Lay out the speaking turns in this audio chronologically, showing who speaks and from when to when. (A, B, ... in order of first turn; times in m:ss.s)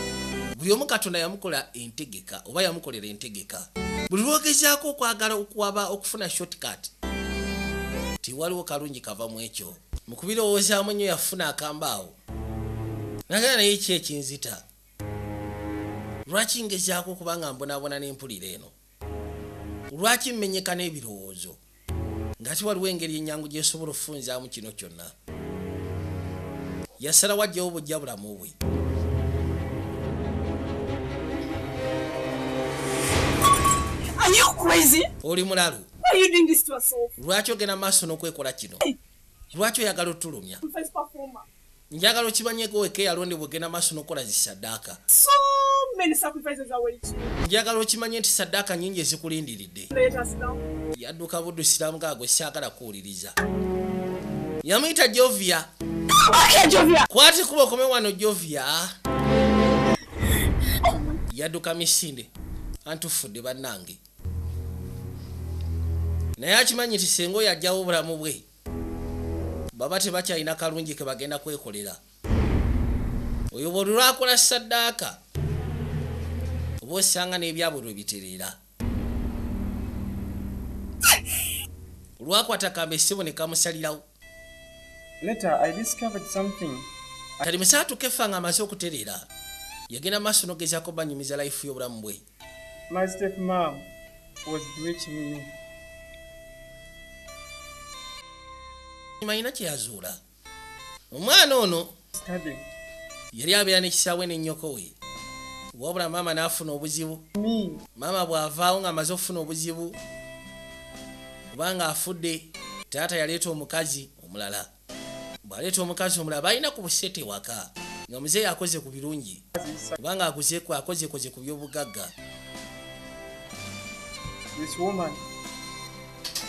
0:00.5-0:06.9 A
0:08.2-0:12.2 A
0:13.3-0:14.6 A
0:16.2-0:18.7 A
0:19.9-0:21.6 A
0:22.4-0:25.1 A
0:27.0-0:28.5 A
0:34.2-0:35.1 B
0:35.2-0:35.9 A
0:36.0-0:37.1 B
0:37.2-0:38.8 A
0:39.5-0:40.6 A
0:40.6-0:41.4 B
0:41.9-0:45.0 A
0:45.1-0:47.3 B
0:47.4-0:49.9 A
0:49.9-0:50.6 B
0:51.0-0:53.4 A
0:54.6-0:55.7 A
0:56.5-0:57.0 B
0:57.1-0:58.9 A
1:01.3-1:02.3 A
1:02.8-1:04.0 A
1:06.4-1:08.4 A
1:09.7-1:12.0 A
1:13.5-1:15.2 A
1:16.8-1:18.6 A
1:22.2-1:24.0 A
1:25.2-1:26.9 C
1:27.4-1:29.3 A
1:29.9-1:32.2 A
1:32.9-1:33.9 C
1:34.4-1:35.5 C
1:39.2-1:40.2 A
1:41.1-1:41.9 A
1:42.2-1:42.6 C
1:43.3-1:44.9 A
1:45.7-1:47.2 A
1:47.4-1:47.8 C
1:48.0-1:50.0 A
1:51.5-1:54.7 A
1:55.4-1:59.4 A
1:59.6-2:00.0 C
2:00.0-2:02.1 A
2:04.5-2:05.2 C